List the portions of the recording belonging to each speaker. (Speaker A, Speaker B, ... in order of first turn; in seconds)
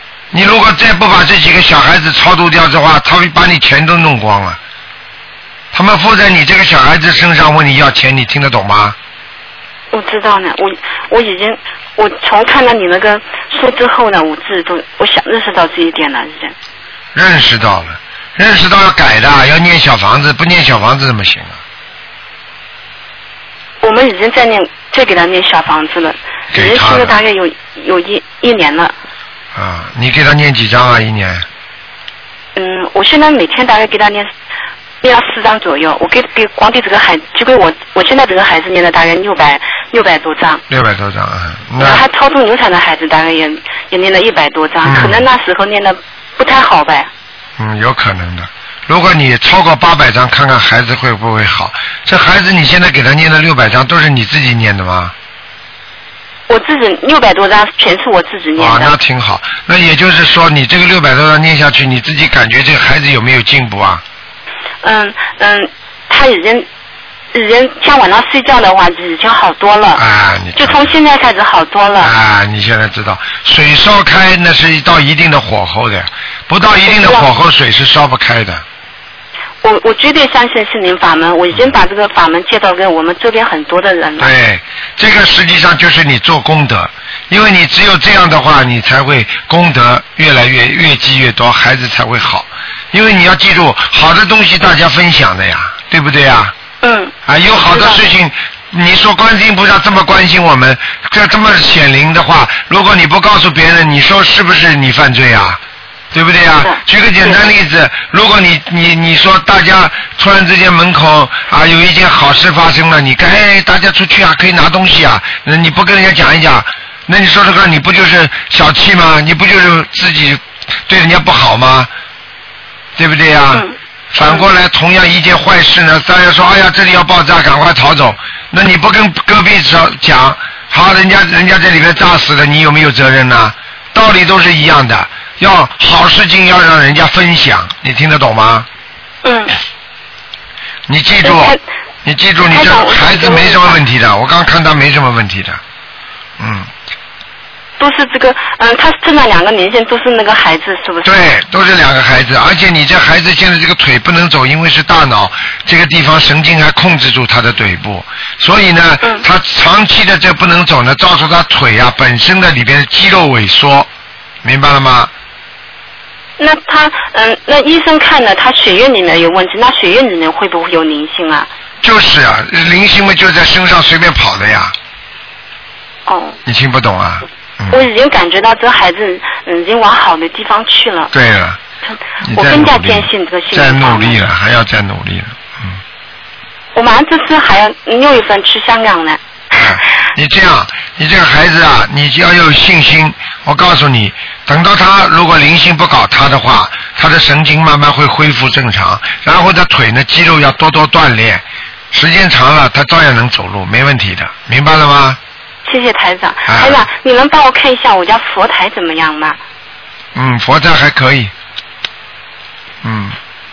Speaker A: 0.3-4.6, 5.7-9.0, 17.1-21.6, 26.5-27.2, 29.5-31.4, 40.7-42.0, 44.8-45.2, 47.6-55.1, 58.6-64.0, 69.9-70.9, 72.0-78.6, 84.2-96.5, 97.2-105.6, 106.1-121.9, 123.0-138.7, 140.9-145.6, 146.4-146.7, 151.0-163.9, 164.4-165.1, 171.8-174.7, 176.4-177.8, 181.1-181.6, 182.2-185.8, 189.5-205.2, 206.5-206.8, 210.1-211.3, 212.8-213.2
Speaker B: 9.9-16.5, 23.8-28.9, 32.5-34.3, 35.0-40.6, 41.8-47.1, 56.5-58.9, 64.8-66.7, 67.3-70.0, 70.6-72.1, 76.9-77.2, 79.6-84.3, 96.8-98.0, 106.6-107.4, 123.5-124.4, 139.2-139.6, 141.2-141.6, 142.5-143.8, 147.8-151.2, 166.4-171.5, 176.1-176.4, 177.7-181.1, 182.3-184.2, 186.7-189.2, 205.6-209.4